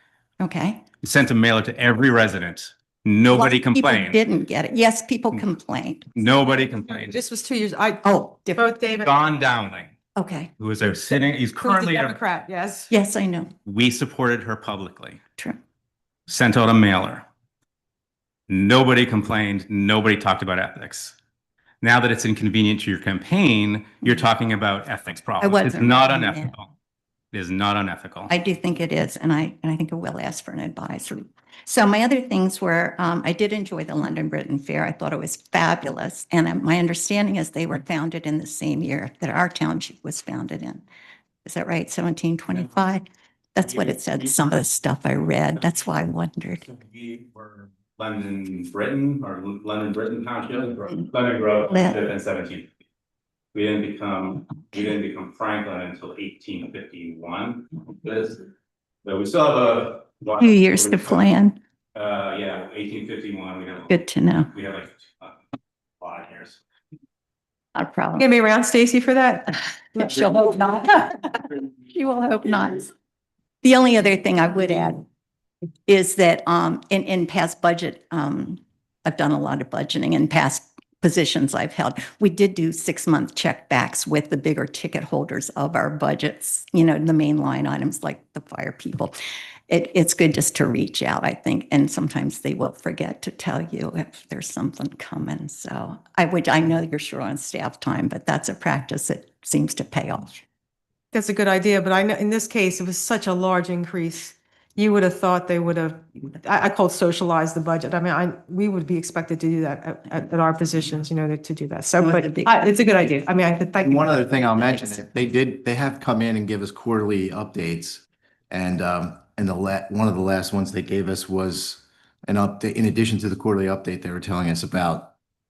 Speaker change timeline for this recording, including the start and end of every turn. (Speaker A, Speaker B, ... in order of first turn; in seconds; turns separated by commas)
Speaker A: 0.4-0.8, Speaker B: 1.0-4.2, Speaker A: 3.3-6.2, Speaker B: 6.2-7.2, Speaker C: 6.9-9.1, Speaker A: 8.0-8.7, Speaker B: 9.0-9.9, Speaker A: 10.2-10.5, Speaker B: 10.6-12.2, Speaker C: 11.6-12.9, Speaker A: 12.9-13.5, Speaker B: 13.7-15.2, Speaker B: 16.3-17.3, Speaker B: 18.5-21.2, Speaker B: 21.8-26.7, Speaker A: 25.4-26.5, Speaker B: 27.3-28.3, Speaker A: 28.3-40.8, Speaker A: 41.5-46.7, Speaker B: 46.9-52.7, Speaker A: 51.7-52.0, Speaker B: 53.5-58.4, Speaker B: 59.0-61.2, Speaker A: 60.4-61.6, Speaker B: 62.0-64.0, Speaker A: 63.9-64.5, Speaker B: 64.5-65.4, Speaker B: 66.0-66.6, Speaker A: 67.8-68.3, Speaker C: 68.2-70.2, Speaker A: 69.9-72.9, Speaker A: 73.6-75.0, Speaker A: 75.9-89.2, Speaker A: 89.7-100.4, Speaker C: 101.1-114.3, Speaker A: 112.0-112.6, Speaker D: 113.8-125.1, Speaker A: 114.5-115.0